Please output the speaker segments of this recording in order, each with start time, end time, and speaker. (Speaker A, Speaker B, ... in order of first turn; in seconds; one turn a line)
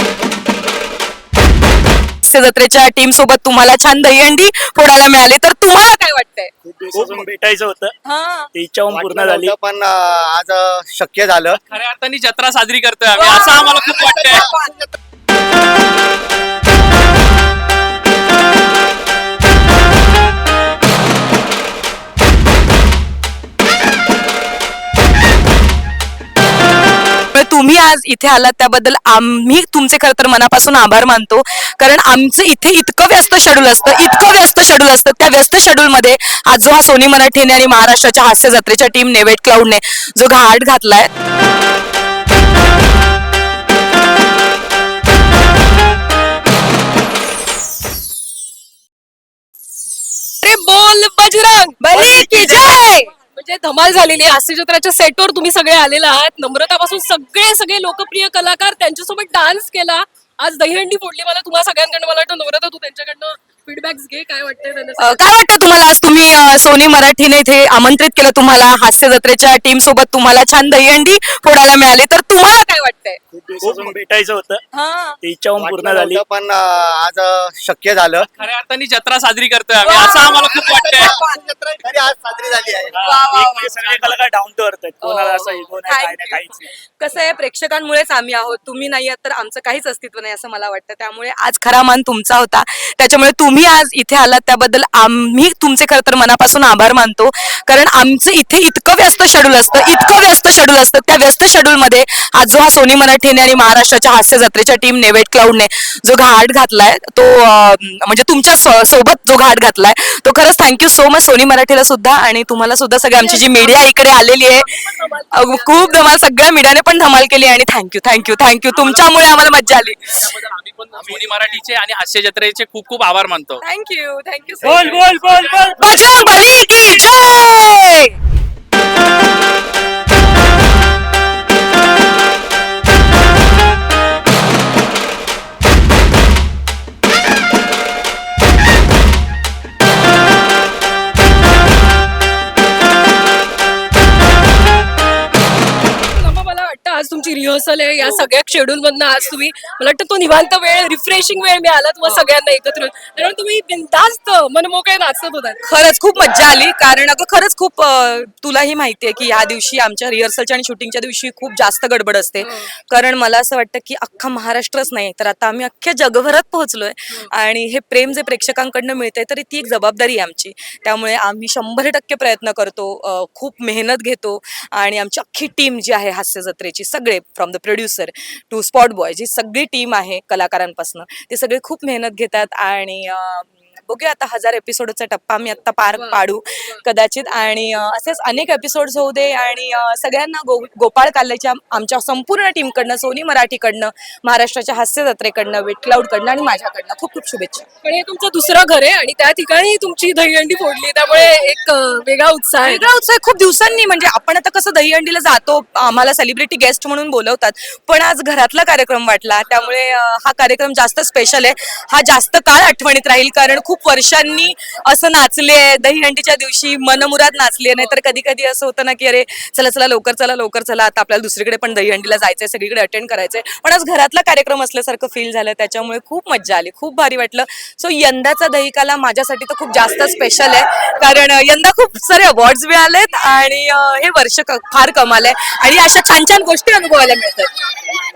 Speaker A: 2.2-6.5
Speaker B: 6.7-7.9
Speaker A: 8.0-8.5
Speaker B: 8.5-9.5
Speaker C: 8.9-11.6
Speaker D: 11.7-14.5
Speaker A: 13.1-14.8
Speaker A: 27.3-41.1
Speaker E: 50.4-65.2
Speaker A: 51.8-53.1
Speaker A: 65.0-73.2
Speaker B: 73.3-74.6
Speaker C: 73.6-73.9
Speaker A: 74.7-75.2
Speaker B: 75.2-76.2
Speaker C: 75.5-78.3
Speaker D: 78.4-81.2
Speaker A: 79.8-81.5
Speaker C: 80.4-83.0
Speaker B: 82.9-86.6
Speaker A: 83.0-84.1
Speaker A: 85.0-114.7
Speaker E: 113.2-113.9
Speaker E: 114.5-116.1
Speaker A: 115.3-120.2
Speaker D: 120.2-123.6
Speaker A: 123.6-125.1
Speaker B: 124.6-126.3
Speaker A: 125.8-128.1
Speaker E: 146.1-155.6
Speaker A: 155.7-197.7
Speaker E: 162.4-162.7
Speaker E: 185.9-186.8
Speaker E: 197.8-202.8
Speaker A: 202.6-237.5